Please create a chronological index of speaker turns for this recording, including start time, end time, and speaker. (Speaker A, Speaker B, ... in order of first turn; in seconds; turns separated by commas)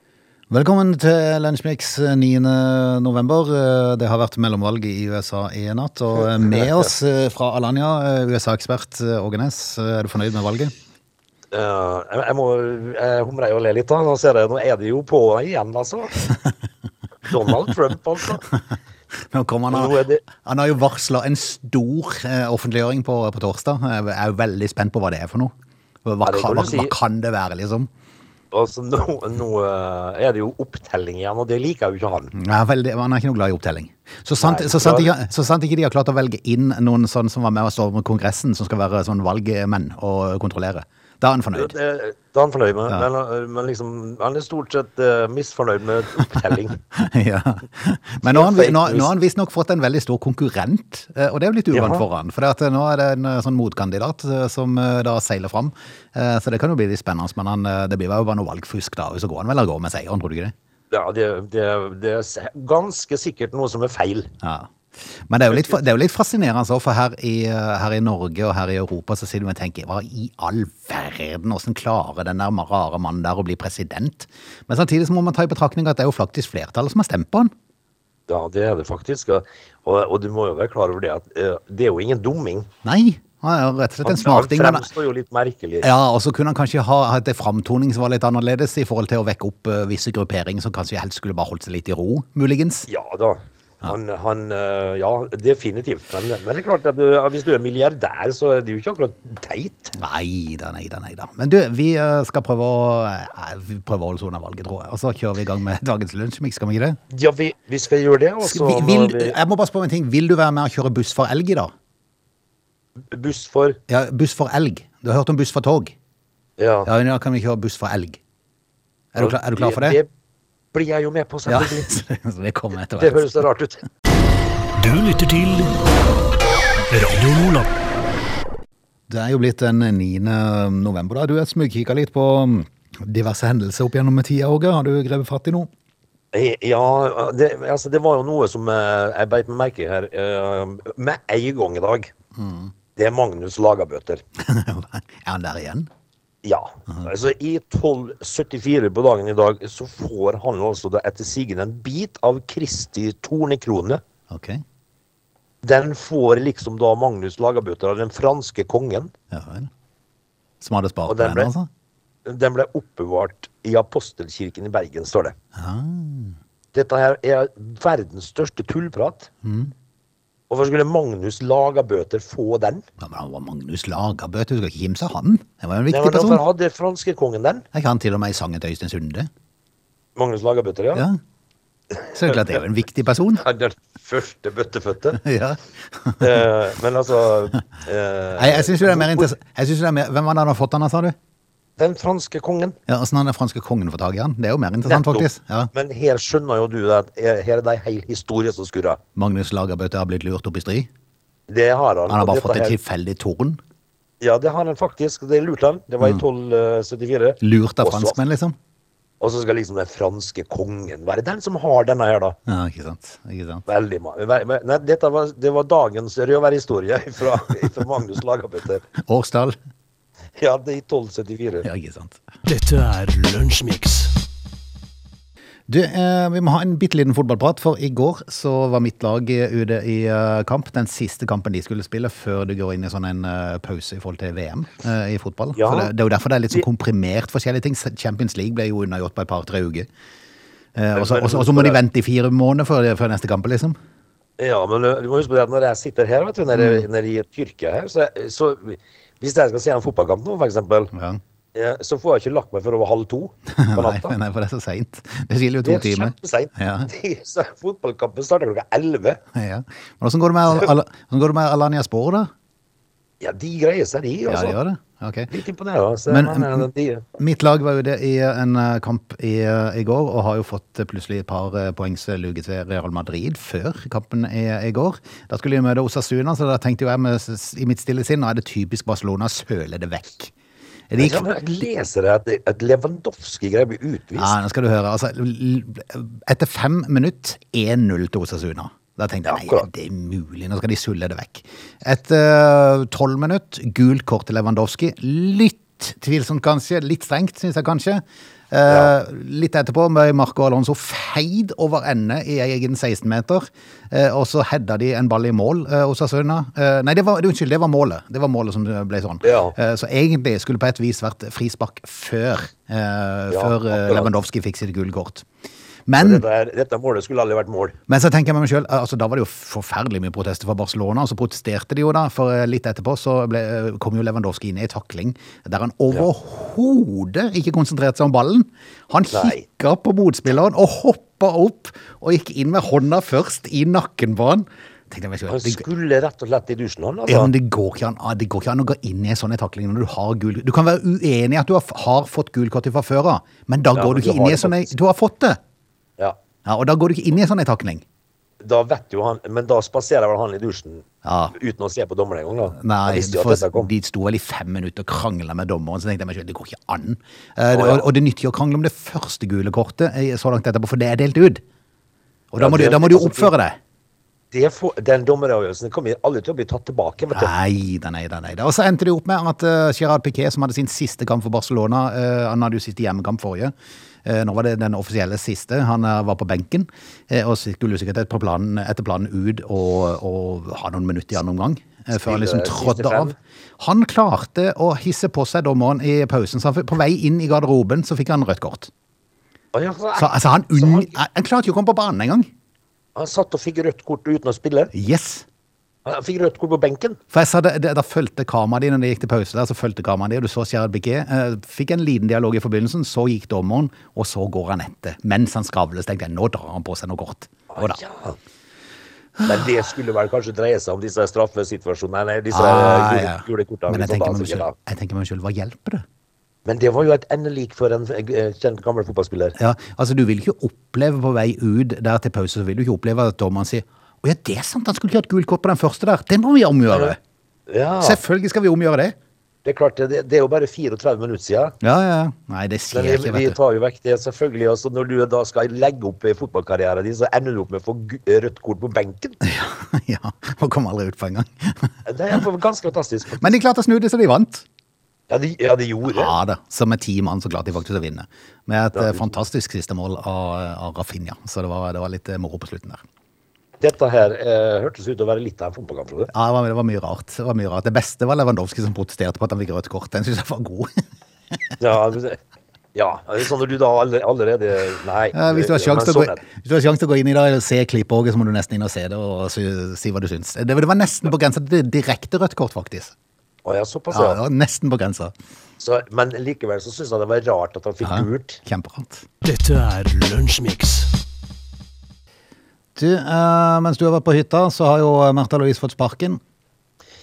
Speaker A: 0.5-10.7, Speaker B: 11.5-16.1, Speaker B: 17.2-18.4, Speaker A: 19.3-25.5, Speaker B: 19.7-20.2, Speaker A: 26.0-27.9, Speaker B: 26.2-26.9, Speaker B: 28.5-32.3, Speaker A: 32.3-41.7, Speaker B: 34.4-35.1, Speaker B: 41.5-46.8, Speaker A: 46.9-60.5, Speaker B: 48.2-49.1, Speaker B: 51.7-52.0, Speaker B: 60.9-64.3, Speaker A: 64.4-77.5, Speaker B: 65.5-65.8, Speaker B: 78.3-82.7, Speaker A: 82.8-84.9, Speaker B: 84.0-85.9, Speaker A: 85.8-92.9, Speaker B: 92.9-99.9, Speaker A: 99.9-107.0, Speaker B: 107.1-109.4, Speaker A: 108.4-111.7, Speaker B: 113.0-113.8, Speaker A: 113.9-116.0, Speaker B: 116.6-116.9, Speaker A: 116.8-118.2, Speaker A: 119.1-120.0, Speaker B: 119.2-120.1, Speaker B: 120.7-121.9, Speaker A: 121.5-123.3, Speaker B: 123.0-123.8, Speaker C: 124.8-125.7, Speaker C: 126.9-127.7, Speaker A: 129.1-135.7, Speaker B: 136.3-142.1, Speaker A: 142.3-142.7, Speaker B: 142.9-144.2, Speaker A: 144.4-145.9, Speaker B: 146.4-154.0, Speaker A: 154.3-154.6, Speaker B: 155.6-159.1, Speaker A: 159.3-159.7, Speaker A: 160.6-161.7, Speaker B: 161.1-161.5, Speaker B: 162.2-165.3, Speaker A: 165.5-166.4, Speaker B: 166.7-169.3, Speaker A: 169.4-169.7, Speaker B: 170.5-172.8, Speaker A: 173.0-176.4, Speaker B: 175.9-177.7, Speaker A: 177.7-179.3, Speaker B: 180.2-181.1, Speaker A: 182.1-183.4, Speaker B: 182.3-182.6, Speaker B: 183.4-185.2, Speaker A: 185.2-186.4, Speaker B: 186.2-189.3, Speaker A: 188.4-191.2, Speaker B: 191.8-192.8, Speaker A: 192.9-195.7, Speaker B: 194.9-199.0, Speaker A: 199.1-200.9, Speaker B: 201.5-202.8, Speaker A: 202.1-203.6, Speaker B: 204.2-208.2, Speaker A: 207.4-208.6, Speaker B: 209.2-212.4, Speaker A: 212.4-213.6, Speaker B: 213.7-218.8, Speaker A: 219.0-219.6, Speaker B: 220.4-221.7, Speaker A: 221.6-222.2, Speaker C: 222.4-224.1, Speaker A: 225.7-239.9, Speaker B: 235.5-235.9, Speaker A: 240.8-243.8, Speaker B: 240.9-241.8, Speaker B: 244.4-250.9, Speaker A: 246.5-246.8, Speaker A: 250.9-251.2, Speaker B: 251.5-254.1, Speaker A: 253.5-256.9, Speaker B: 255.6-259.2, Speaker A: 259.3-262.3, Speaker B: 263.2-264.6, Speaker A: 264.3-265.3, Speaker B: 265.3-267.0, Speaker A: 266.1-280.3, Speaker A: 280.9-281.2, Speaker B: 281.0-284.3, Speaker A: 284.1-315.2, Speaker B: 289.2-289.7, Speaker B: 298.7-298.9, Speaker B: 309.2-309.6, Speaker B: 313.3-314.1, Speaker A: 315.9-316.2, Speaker B: 316.0-317.8, Speaker A: 317.9-335.6, Speaker B: 329.1-329.4, Speaker B: 335.3-337.3, Speaker A: 337.1-345.4, Speaker B: 343.8-344.7, Speaker A: 346.4-347.8, Speaker B: 348.4-353.7, Speaker A: 351.0-351.3, Speaker A: 352.5-361.4, Speaker B: 357.5-357.9, Speaker A: 362.3-363.6, Speaker B: 362.4-363.3, Speaker B: 364.3-367.3, Speaker A: 367.1-373.5, Speaker A: 374.0-388.7, Speaker B: 381.9-383.1, Speaker B: 389.5-390.9, Speaker A: 389.9-392.3, Speaker B: 392.9-394.7, Speaker A: 394.7-395.2, Speaker B: 395.8-397.0, Speaker A: 397.1-407.8, Speaker B: 407.5-408.2, Speaker B: 409.2-414.5, Speaker A: 412.3-415.8, Speaker B: 416.4-419.3, Speaker A: 419.4-427.0, Speaker B: 426.7-426.9, Speaker B: 427.5-428.0, Speaker A: 427.8-428.9, Speaker B: 429.4-431.6, Speaker A: 431.6-433.4, Speaker B: 432.7-439.2, Speaker A: 439.2-442.2, Speaker B: 441.8-443.4, Speaker A: 443.2-444.4, Speaker B: 445.1-446.1, Speaker A: 445.9-452.8, Speaker B: 448.7-449.1, Speaker B: 453.6-456.1, Speaker A: 456.1-460.8, Speaker B: 461.6-462.2, Speaker B: 462.7-466.2, Speaker A: 465.1-472.9, Speaker B: 473.4-474.2, Speaker A: 473.9-475.1, Speaker B: 475.6-478.4, Speaker A: 477.8-479.1, Speaker C: 479.2-480.9, Speaker A: 482.8-486.2